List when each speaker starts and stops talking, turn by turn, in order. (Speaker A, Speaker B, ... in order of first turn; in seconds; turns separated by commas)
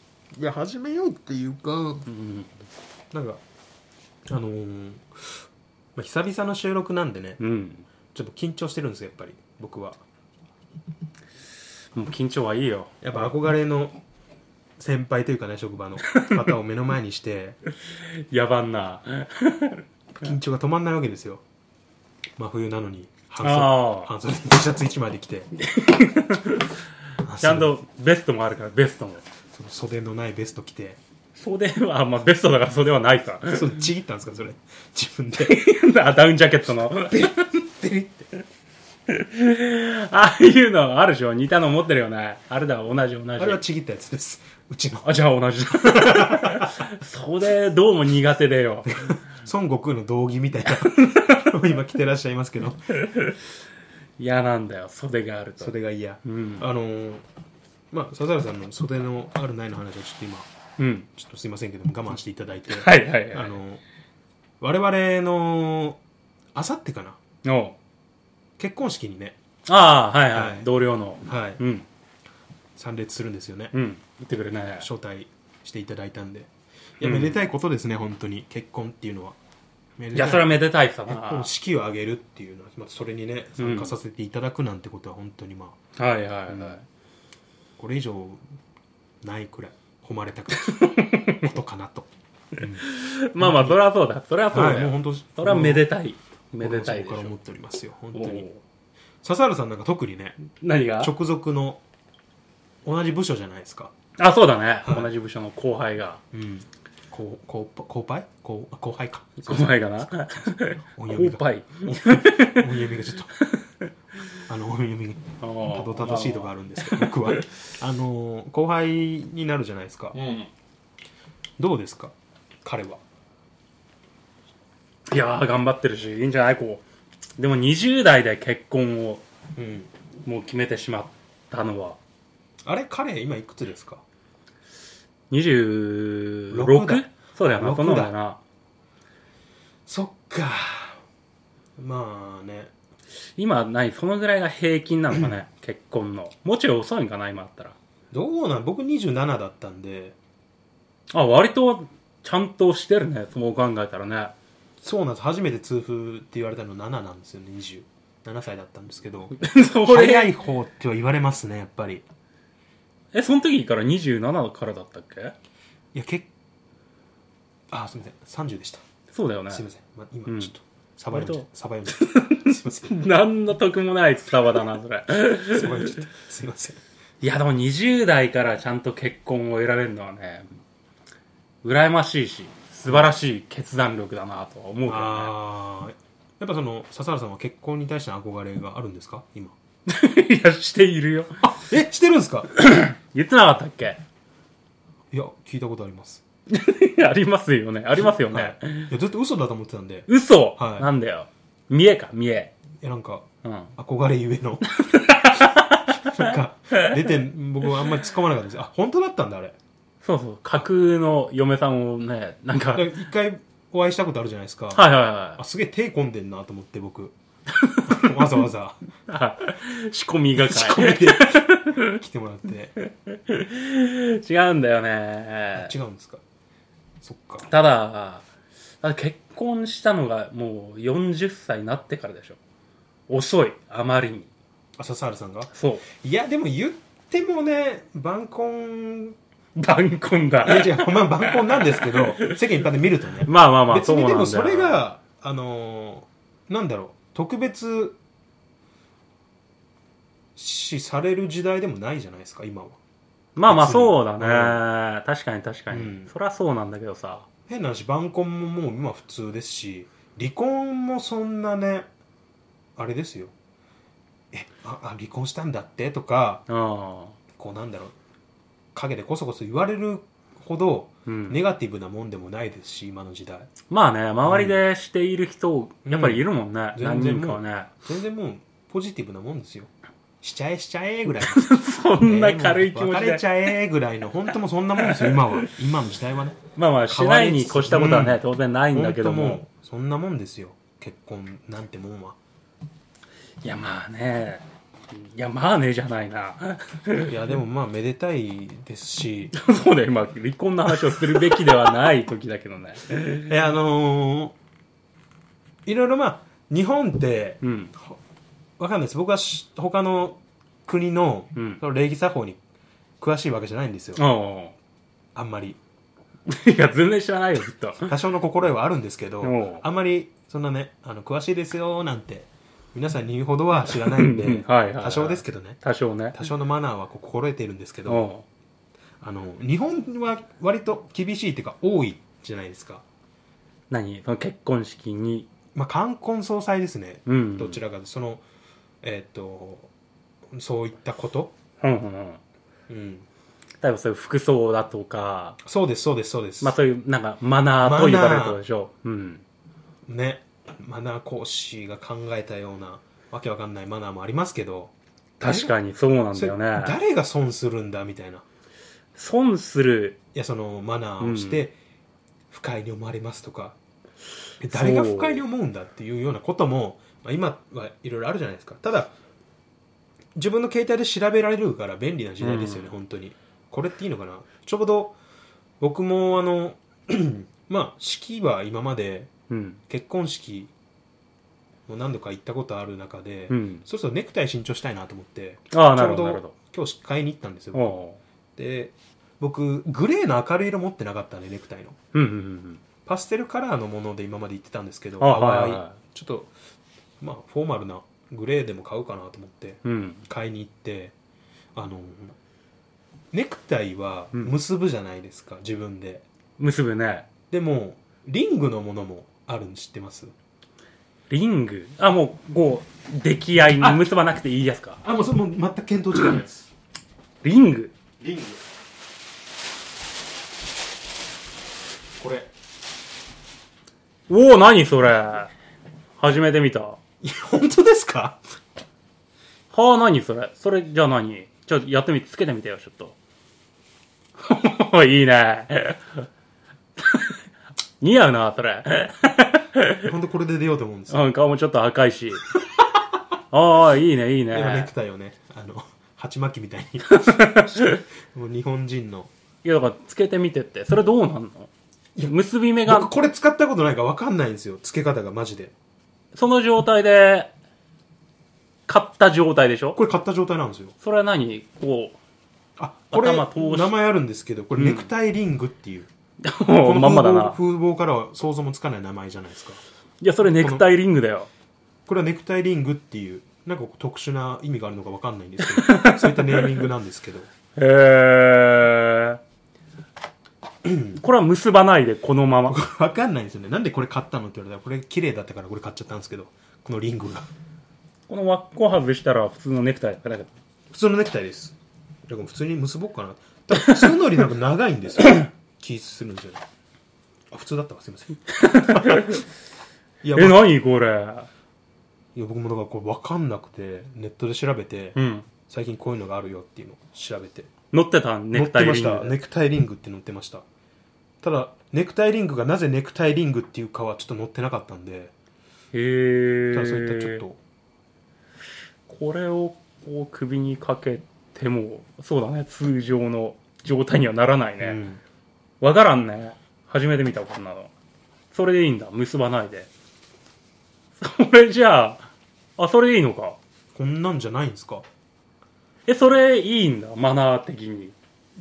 Speaker A: 0.3-2.1, Speaker B: 2.1-2.5, Speaker A: 3.1-3.4, Speaker A: 4.3-5.4, Speaker A: 6.0-7.4, Speaker B: 7.4-7.9, Speaker A: 8.1-10.0, Speaker B: 11.9-13.3, Speaker A: 13.0-14.0, Speaker A: 14.8-17.6, Speaker B: 16.1-16.4, Speaker B: 18.2-19.8, Speaker A: 20.2-21.4, Speaker A: 22.4-25.5, Speaker B: 23.4-24.1, Speaker B: 25.6-26.7, Speaker A: 27.2-27.7, Speaker B: 27.4-29.2, Speaker A: 29.5-31.0, Speaker B: 31.4-33.8, Speaker A: 33.5-35.6, Speaker B: 35.4-38.4, Speaker B: 39.1-43.6, Speaker A: 43.4-45.1, Speaker B: 45.0-49.2, Speaker A: 45.8-46.7, Speaker A: 49.0-52.9, Speaker B: 50.8-51.5, Speaker B: 53.0-53.4, Speaker B: 54.2-56.6, Speaker A: 55.6-57.2, Speaker A: 57.9-60.5, Speaker B: 60.8-61.1, Speaker A: 61.1-63.8, Speaker B: 62.7-63.5, Speaker A: 64.6-66.0, Speaker A: 66.5-67.2, Speaker B: 67.5-67.8, Speaker A: 68.6-69.4, Speaker B: 69.7-71.9, Speaker A: 70.3-70.7, Speaker A: 71.2-71.6, Speaker A: 72.8-73.7, Speaker B: 73.7-74.9, Speaker A: 74.8-79.4, Speaker B: 77.0-77.4, Speaker A: 80.0-85.8, Speaker B: 80.1-81.5, Speaker B: 83.6-83.9, Speaker B: 86.0-86.8, Speaker A: 86.5-86.8, Speaker A: 87.8-88.4, Speaker A: 89.2-90.8, Speaker B: 90.7-91.5, Speaker A: 91.4-92.8, Speaker B: 92.8-97.3, Speaker A: 93.4-93.8, Speaker A: 94.5-95.9, Speaker A: 96.6-98.5, Speaker B: 98.1-98.6, Speaker A: 99.2-100.4, Speaker B: 100.5-101.1, Speaker A: 101.0-101.8, Speaker A: 102.8-103.9, Speaker B: 104.2-106.2, Speaker A: 104.8-105.1, Speaker A: 106.3-113.3, Speaker B: 109.5-112.7, Speaker B: 113.4-113.9, Speaker A: 114.5-120.2, Speaker B: 115.4-117.5, Speaker B: 120.1-120.5, Speaker A: 121.6-123.0, Speaker B: 125.1-126.8, Speaker B: 127.4-129.2, Speaker A: 129.6-129.9, Speaker B: 130.2-132.0, Speaker A: 132.6-134.0, Speaker B: 135.3-138.4, Speaker A: 136.5-138.1, Speaker A: 139.9-141.0, Speaker A: 141.8-142.7, Speaker B: 143.4-147.8, Speaker A: 148.1-150.2, Speaker B: 151.1-154.3, Speaker A: 154.8-162.1, Speaker B: 159.4-160.3, Speaker B: 163.1-165.3, Speaker A: 165.9-166.3, Speaker A: 167.7-168.8, Speaker B: 169.1-169.7, Speaker A: 169.5-172.9, Speaker B: 170.3-170.5, Speaker B: 171.1-175.9, Speaker A: 175.5-176.8, Speaker B: 177.2-180.5, Speaker B: 181.6-185.3, Speaker A: 182.8-183.1, Speaker A: 184.9-189.6, Speaker B: 189.9-191.4, Speaker A: 191.4-192.5, Speaker B: 192.6-194.0, Speaker A: 195.1-196.2, Speaker B: 196.5-198.9, Speaker A: 198.2-200.9, Speaker B: 200.1-202.5, Speaker A: 202.8-204.7, Speaker B: 203.4-203.7, Speaker B: 204.8-206.9, Speaker A: 205.2-209.6, Speaker B: 210.0-212.9, Speaker A: 212.7-217.2, Speaker B: 214.8-215.4, Speaker B: 217.5-218.1, Speaker A: 217.9-218.8, Speaker B: 219.1-222.0, Speaker A: 220.4-222.8, Speaker B: 222.9-225.7, Speaker A: 225.6-226.2, Speaker A: 227.0-227.5, Speaker B: 227.5-228.3, Speaker B: 228.8-232.4, Speaker B: 233.1-234.3, Speaker A: 234.8-239.2, Speaker B: 235.5-235.9, Speaker B: 239.6-242.4, Speaker A: 240.4-248.0, Speaker B: 243.2-244.8, Speaker A: 250.4-252.8, Speaker B: 253.4-257.3, Speaker A: 253.4-254.6, Speaker A: 255.7-256.1, Speaker A: 257.5-261.9, Speaker A: 262.8-263.3, Speaker A: 264.3-266.4, Speaker B: 266.5-267.2, Speaker A: 267.4-267.9, Speaker A: 268.7-273.5, Speaker B: 271.1-271.4, Speaker B: 273.7-277.7, Speaker A: 274.3-274.6, Speaker A: 275.9-276.2, Speaker A: 276.8-281.5, Speaker B: 281.2-283.3, Speaker A: 282.0-288.2, Speaker B: 284.8-285.4, Speaker B: 286.6-289.4, Speaker A: 288.7-292.2, Speaker B: 293.4-297.1, Speaker A: 297.0-299.3, Speaker B: 299.3-303.3, Speaker A: 300.8-301.7, Speaker A: 303.2-304.4, Speaker A: 305.7-308.0, Speaker B: 307.4-307.7, Speaker A: 308.6-312.4, Speaker B: 311.4-311.6, Speaker A: 313.0-314.0, Speaker B: 314.0-314.6, Speaker A: 315.1-315.6, Speaker B: 316.3-317.9, Speaker A: 317.9-325.6, Speaker B: 319.2-319.6, Speaker B: 323.7-326.2, Speaker A: 326.1-328.1, Speaker B: 327.9-328.2, Speaker A: 329.0-332.8, Speaker B: 333.7-335.3, Speaker A: 335.6-338.2, Speaker B: 337.1-337.6, Speaker A: 338.8-339.7, Speaker A: 340.3-341.3, Speaker B: 341.6-342.2, Speaker A: 342.7-343.1, Speaker B: 343.6-345.4, Speaker A: 345.4-346.6, Speaker B: 346.4-349.2, Speaker A: 347.6-348.4, Speaker A: 349.9-355.5, Speaker B: 355.2-356.8, Speaker A: 356.1-358.2, Speaker B: 358.9-360.0, Speaker A: 360.1-361.6, Speaker B: 361.0-361.4, Speaker A: 362.3-363.6, Speaker A: 364.4-368.9, Speaker B: 364.5-365.2, Speaker A: 370.1-375.0, Speaker B: 372.2-372.7, Speaker A: 375.6-379.1, Speaker B: 379.3-379.6, Speaker A: 379.7-380.5, Speaker A: 381.7-387.8, Speaker B: 383.3-383.6, Speaker B: 385.5-386.4, Speaker B: 387.5-388.0, Speaker A: 388.4-391.8, Speaker B: 391.9-392.6, Speaker A: 392.9-396.3, Speaker B: 395.0-395.8, Speaker A: 397.0-400.9, Speaker B: 399.6-400.1, Speaker A: 401.6-402.2, Speaker A: 403.1-406.0, Speaker B: 406.4-407.1, Speaker A: 407.3-410.1, Speaker B: 411.1-414.8, Speaker A: 413.6-413.9, Speaker A: 414.8-416.5, Speaker B: 417.2-417.7, Speaker A: 418.0-418.4, Speaker A: 422.0-422.3, Speaker B: 424.1-425.3, Speaker B: 426.0-426.8, Speaker A: 427.0-428.2, Speaker B: 429.5-433.0, Speaker B: 434.2-436.1, Speaker B: 436.8-437.1, Speaker B: 437.8-439.9, Speaker A: 439.8-441.1, Speaker B: 440.9-442.3, Speaker B: 443.3-444.7, Speaker A: 444.3-449.1, Speaker B: 446.9-447.8, Speaker B: 449.4-451.5, Speaker B: 452.0-452.9, Speaker A: 452.7-455.5, Speaker B: 456.1-457.3, Speaker B: 458.7-459.8, Speaker A: 459.8-460.7, Speaker B: 460.8-462.0, Speaker A: 462.6-465.9, Speaker B: 462.9-463.7, Speaker B: 464.6-464.9, Speaker B: 466.2-467.4, Speaker A: 466.6-469.6, Speaker B: 470.0-471.3, Speaker A: 470.4-470.7, Speaker A: 471.9-477.3, Speaker B: 475.4-476.6, Speaker B: 477.6-479.2, Speaker A: 480.6-481.0, Speaker B: 480.9-482.6, Speaker A: 482.5-487.3, Speaker B: 488.1-490.3, Speaker A: 490.7-491.6, Speaker A: 492.1-496.4, Speaker A: 497.3-499.2, Speaker B: 498.3-499.2, Speaker A: 500.0-500.5, Speaker B: 500.1-501.3, Speaker A: 502.1-507.5, Speaker B: 504.9-505.3, Speaker B: 507.7-509.2, Speaker A: 508.3-510.4, Speaker A: 511.2-515.1, Speaker B: 515.7-517.2, Speaker A: 516.5-517.4, Speaker B: 518.9-524.8, Speaker A: 524.6-525.0, Speaker B: 525.6-527.7, Speaker B: 528.3-529.7, Speaker B: 531.0-533.4, Speaker A: 533.8-534.9, Speaker B: 535.9-538.0